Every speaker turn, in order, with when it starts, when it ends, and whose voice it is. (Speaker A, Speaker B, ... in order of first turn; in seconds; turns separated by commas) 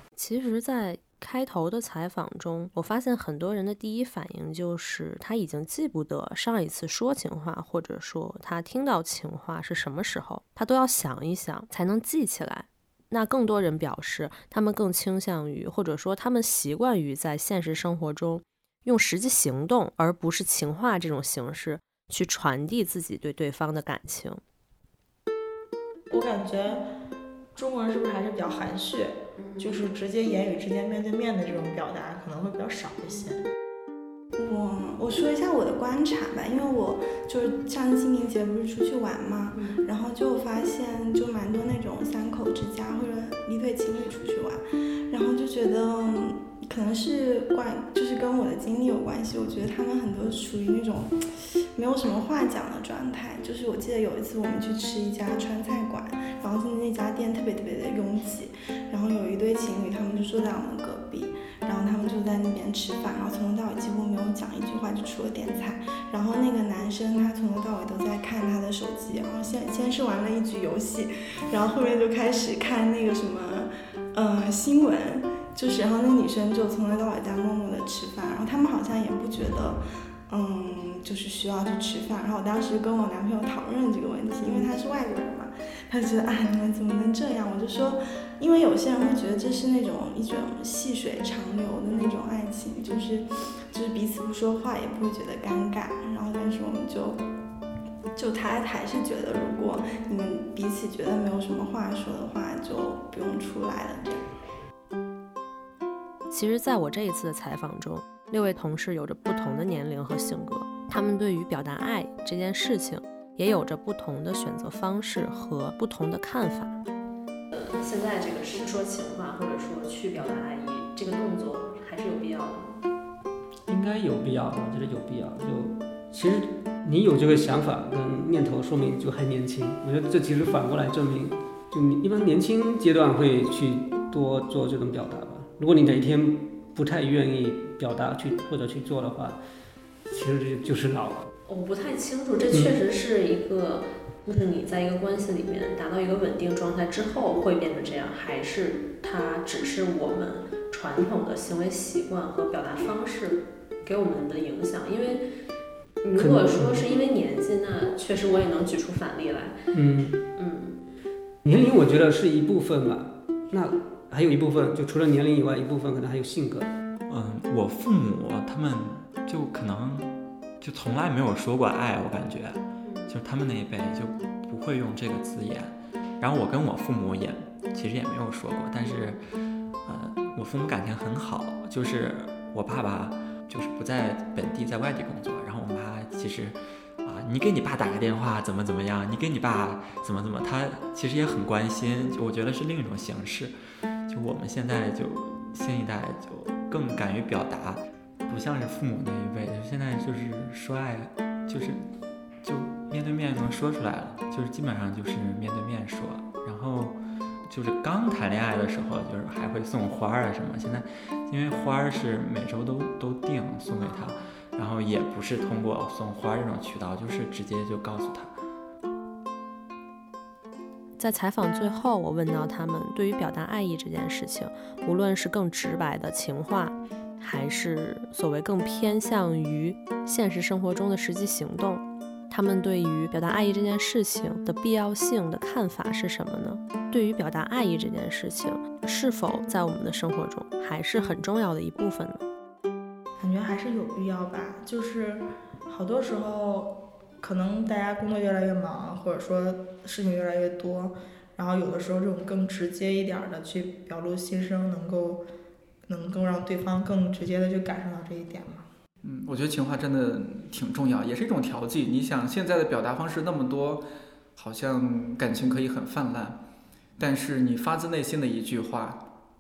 Speaker A: 0.2-24.4, Speaker B: 26.1-26.9, Speaker B: 27.6-33.5, Speaker A: 29.4-29.9, Speaker C: 34.4-97.2, Speaker A: 39.5-39.8, Speaker C: 98.2-104.3, Speaker A: 106.3-116.8, Speaker A: 117.5-122.8, Speaker D: 123.7-139.4, Speaker D: 140.1-141.3, Speaker A: 141.5-155.2, Speaker D: 142.5-142.8, Speaker A: 156.0-159.6, Speaker D: 156.1-156.8, Speaker D: 159.7-160.2, Speaker A: 160.4-160.8, Speaker D: 161.4-166.8, Speaker E: 167.1-170.1, Speaker E: 170.6-179.2, Speaker A: 172.8-173.2, Speaker E: 179.8-193.5, Speaker E: 194.1-201.8, Speaker E: 202.4-206.9, Speaker E: 207.5-218.3, Speaker A: 213.7-214.2, Speaker A: 221.0-242.3, Speaker B: 243.2-255.2, Speaker B: 255.9-258.7, Speaker F: 259.0-263.9, Speaker F: 264.4-266.4, Speaker F: 267.0-269.0